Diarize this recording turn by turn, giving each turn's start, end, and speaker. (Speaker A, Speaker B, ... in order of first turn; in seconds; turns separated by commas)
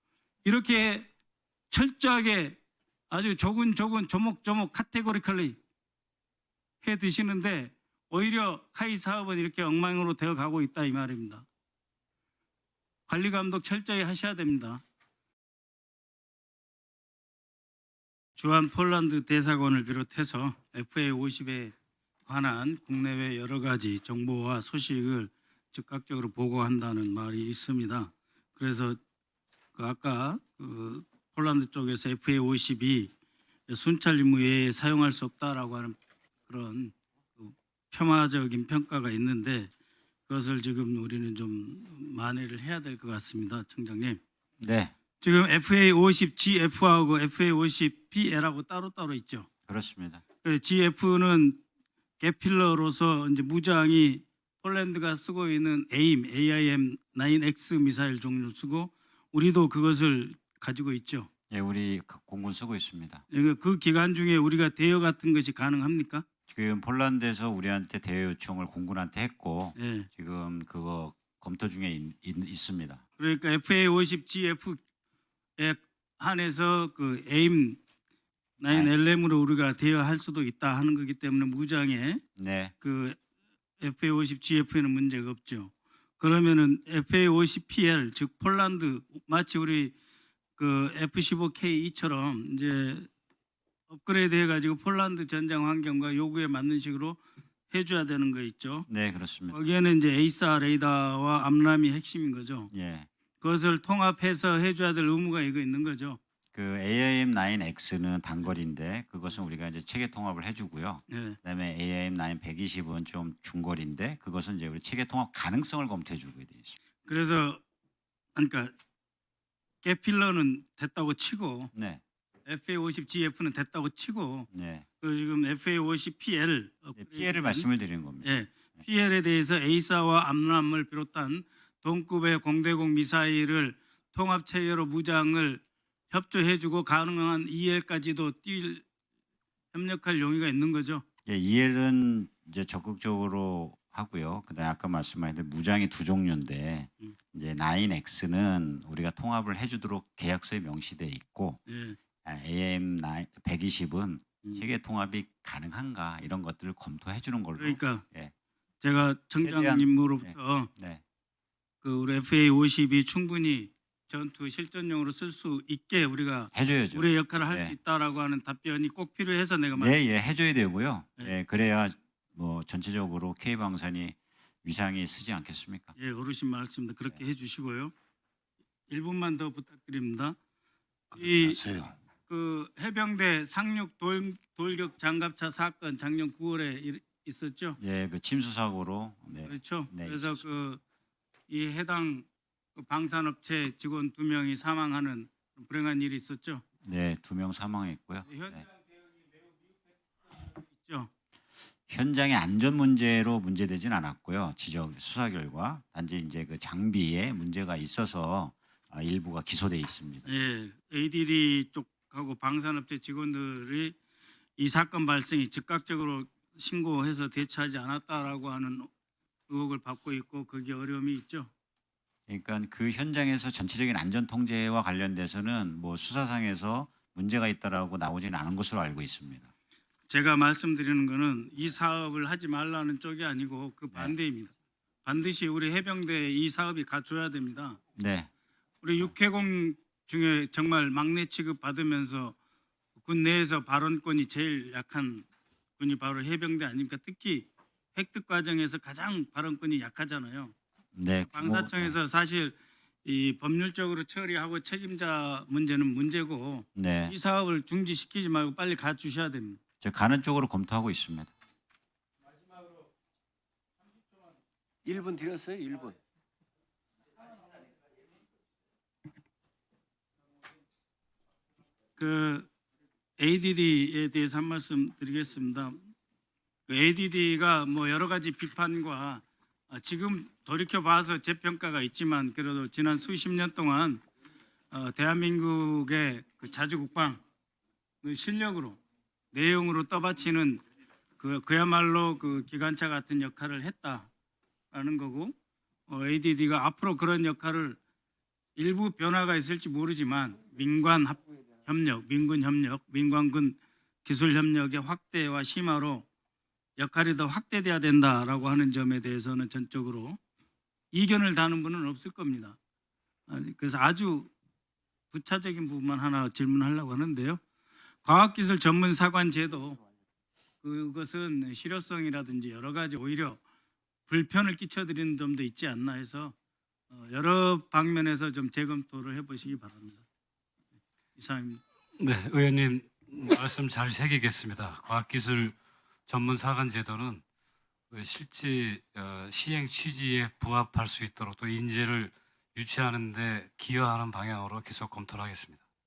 Speaker A: 0.4-1.1, Speaker A: 1.7-2.6, Speaker A: 3.1-5.6, Speaker A: 6.8-11.4, Speaker A: 13.1-14.8, Speaker A: 18.4-21.7, Speaker A: 22.2-29.0, Speaker A: 29.7-33.1, Speaker A: 33.7-39.7, Speaker A: 40.3-44.2, Speaker B: 44.6-44.9, Speaker A: 45.2-49.5, Speaker B: 49.7-50.2, Speaker A: 50.4-51.6, Speaker A: 52.2-61.3, Speaker B: 61.5-63.2, Speaker A: 63.3-66.2, Speaker B: 66.5-73.0, Speaker A: 69.8-70.1, Speaker A: 73.2-74.8, Speaker A: 75.6-77.8, Speaker A: 78.6-82.2, Speaker B: 78.7-78.9, Speaker B: 82.4-82.7, Speaker A: 82.8-83.2, Speaker A: 83.8-89.9, Speaker A: 90.6-93.1, Speaker A: 93.9-97.2, Speaker A: 97.7-98.9, Speaker B: 98.9-99.6, Speaker A: 99.5-102.7, Speaker B: 102.7-103.1, Speaker A: 103.4-106.2, Speaker B: 106.5-116.8, Speaker A: 111.1-111.4, Speaker A: 117.0-117.6, Speaker A: 118.3-118.7, Speaker A: 119.8-121.7, Speaker B: 121.7-122.0, Speaker A: 122.5-124.5, Speaker B: 124.5-124.8, Speaker A: 125.0-127.7, Speaker B: 127.0-128.8, Speaker A: 128.2-138.8, Speaker A: 139.7-141.0, Speaker B: 141.2-151.6, Speaker A: 151.7-152.0, Speaker B: 152.2-158.3, Speaker A: 157.6-158.0, Speaker A: 158.8-160.7, Speaker B: 159.4-161.0, Speaker A: 161.8-170.0, Speaker B: 166.5-167.8, Speaker B: 169.8-175.9, Speaker A: 176.0-177.9, Speaker A: 178.9-180.3, Speaker A: 181.1-181.6, Speaker C: 181.1-181.9, Speaker A: 182.3-187.8, Speaker B: 187.8-190.4, Speaker A: 189.4-190.8, Speaker A: 191.5-196.6, Speaker B: 196.8-198.7, Speaker A: 198.3-198.9, Speaker A: 200.3-201.1, Speaker B: 201.9-210.3, Speaker A: 210.2-213.9, Speaker A: 214.6-218.9, Speaker A: 219.5-221.5, Speaker B: 222.3-229.5, Speaker A: 230.1-234.5, Speaker A: 235.0-237.8, Speaker B: 237.9-238.3, Speaker A: 238.8-242.3, Speaker A: 243.0-245.2, Speaker A: 245.8-250.5, Speaker B: 250.9-251.9, Speaker A: 251.3-259.6, Speaker B: 256.8-257.1, Speaker B: 259.8-261.3, Speaker C: 264.8-265.9, Speaker A: 272.0-272.5, Speaker A: 273.2-275.8, Speaker A: 276.7-284.0, Speaker A: 284.7-287.2, Speaker A: 288.0-288.8, Speaker A: 289.3-290.6, Speaker A: 291.2-294.1, Speaker A: 294.7-295.3, Speaker A: 295.9-297.8, Speaker A: 298.6-306.0, Speaker A: 306.8-310.2, Speaker A: 310.9-312.6, Speaker A: 313.3-314.3, Speaker A: 315.1-317.4, Speaker A: 318.0-319.8, Speaker A: 320.6-323.4, Speaker A: 324.1-326.3, Speaker A: 326.9-330.0, Speaker A: 331.1-331.6, Speaker D: 332.0-337.2, Speaker D: 337.9-345.6